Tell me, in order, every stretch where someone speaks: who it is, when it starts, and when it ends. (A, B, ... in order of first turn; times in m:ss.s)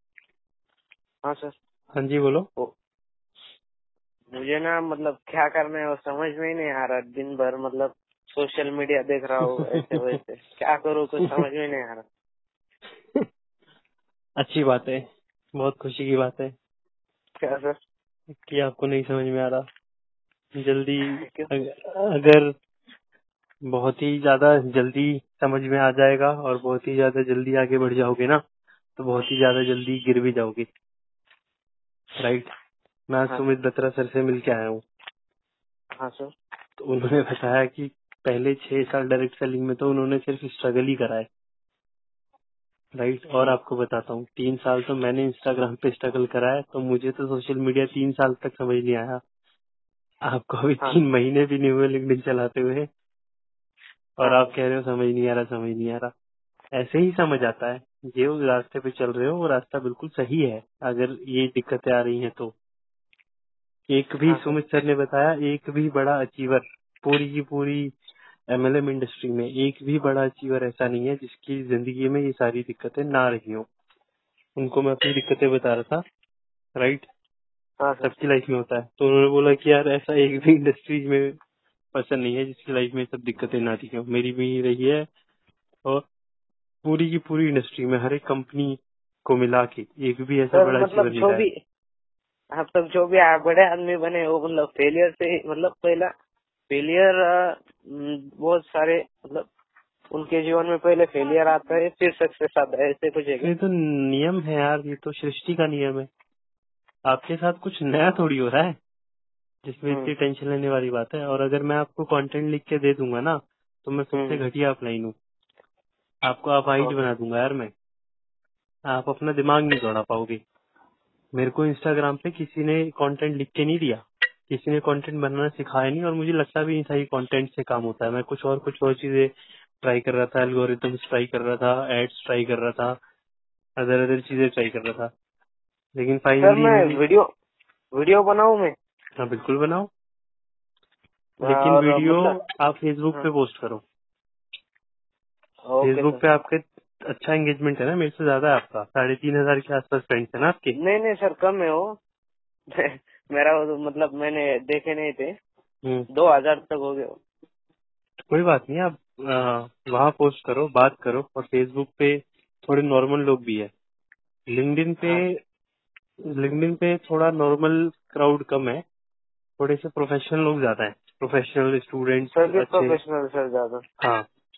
0:01.2-0:01.6 A
0:02.0-0:02.5 B
0:04.3-0:12.0 A
0:09.6-0:09.9 B
0:14.4-0:15.0 B
0:15.6-0:16.5 B
0:17.4-0:17.8 A
0:18.5-0:19.7 B
0:20.6-0:22.5 B
0:21.2-0:21.5 A
0:23.7-0:28.4 B
0:29.0-0:30.7 B
0:32.2-0:32.5 B
0:33.1-0:34.8 B
0:36.0-0:36.3 A
0:36.8-0:41.3 B
0:43.0-0:49.2 B
0:50.3-0:52.9 B
0:54.2-0:56.1 B
0:54.2-0:54.5 A
0:56.8-1:02.5 B
1:03.9-1:07.9 B
1:04.3-1:04.6 A
1:08.5-1:13.7 B
1:14.6-1:16.0 B
1:16.8-1:17.1 B
1:17.8-1:18.1 A
1:18.0-1:21.3 B
1:21.9-1:25.1 B
1:26.8-1:31.4 B
1:30.5-1:31.5 A
1:32.5-1:36.1 A
1:36.7-1:39.5 A
1:40.1-1:43.5 A
1:43.4-1:46.1 B
1:47.1-1:48.8 B
1:49.6-1:55.2 B
1:54.1-1:54.4 A
1:56.2-1:57.7 B
1:56.8-1:57.1 A
1:58.9-2:00.4 B
2:01.4-2:09.3 B
2:09.8-2:13.0 B
2:13.8-2:15.1 B
2:16.0-2:17.0 B
2:16.4-2:17.3 A
2:18.0-2:18.8 A
2:19.2-2:19.9 B
2:21.4-2:22.4 A
2:21.4-2:23.8 B
2:25.7-2:26.2 A
2:25.8-2:30.8 B
2:30.8-2:32.0 A
2:32.8-2:35.3 A
2:36.1-2:37.2 A
2:38.3-2:43.7 B
2:44.5-2:45.4 B
2:46.3-2:48.8 B
2:49.6-2:53.0 B
2:52.3-2:53.8 A